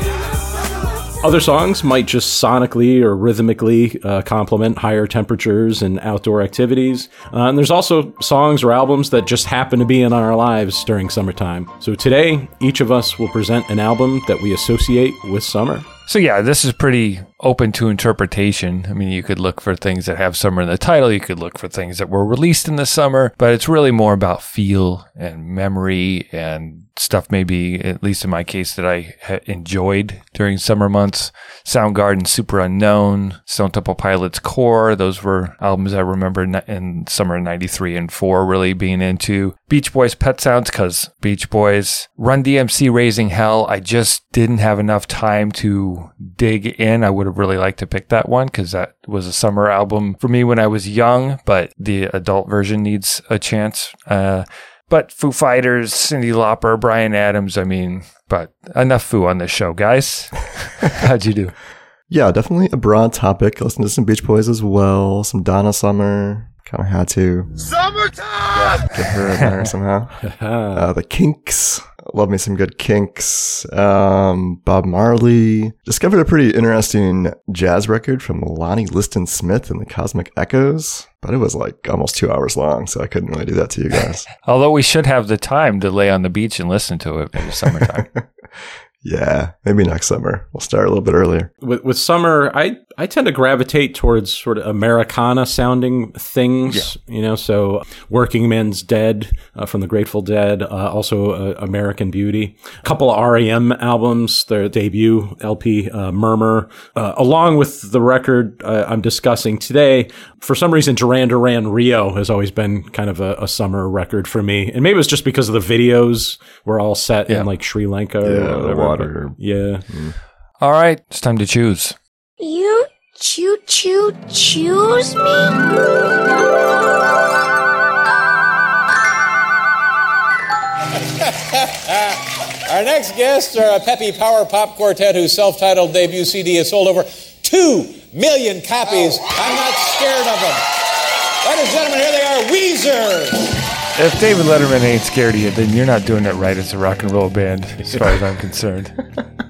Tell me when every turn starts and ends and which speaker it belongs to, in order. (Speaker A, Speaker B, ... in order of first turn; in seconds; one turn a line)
Speaker A: 1.2-15.9
Speaker B: 16.1-61.5
Speaker C: 62.1-67.5
Speaker C: 68.8-84.2
Speaker A: 70.2-70.9
Speaker B: 84.4-88.1
Speaker C: 87.7-88.3
Speaker C: 89.0-91.5
Speaker A: 91.6-119.8
Speaker C: 118.2-120.2
Speaker B: 120.6-122.0
Speaker D: 122.4-125.6
Speaker E: 131.5-140.7
Speaker E: 141.4-143.5
Speaker B: 144.0-148.9